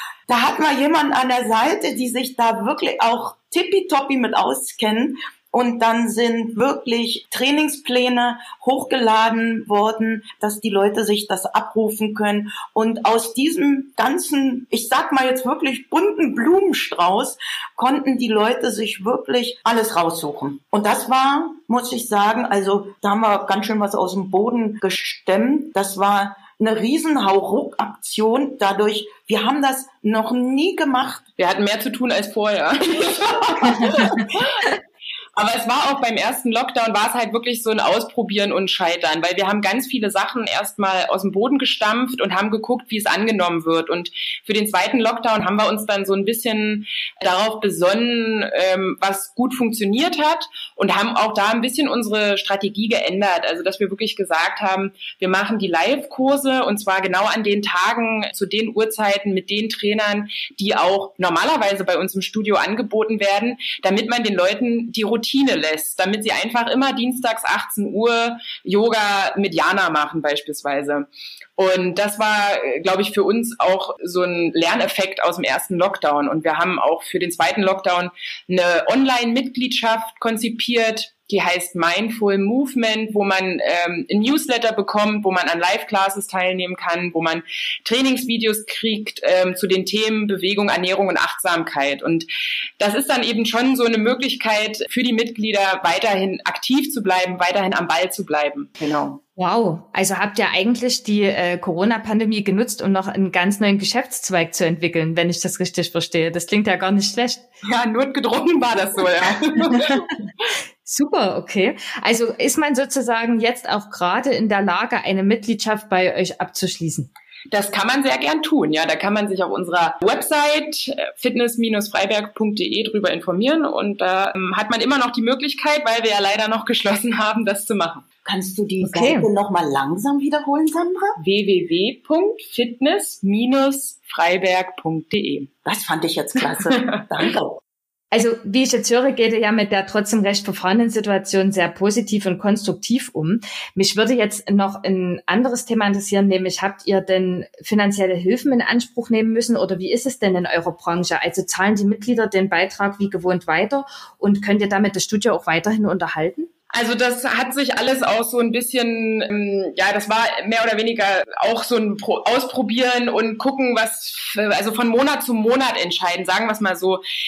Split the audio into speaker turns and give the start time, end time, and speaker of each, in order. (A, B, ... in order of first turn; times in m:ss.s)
0:00.3-0:31.2 A
0:31.4-0:34.8 B
0:35.4-1:11.0 B
1:11.6-1:32.3 B
1:32.8-1:39.2 B
1:39.4-1:47.4 C
1:47.6-1:50.1 B
1:49.7-1:50.0 C
1:50.8-1:57.1 C
1:57.5-2:08.0 B
2:08.2-2:11.2 A
2:08.8-2:09.3 C
2:11.2-2:15.5 B
2:15.6-2:17.6 A
2:16.7-2:17.0 B
2:18.1-2:36.5 C
2:36.7-2:47.0 B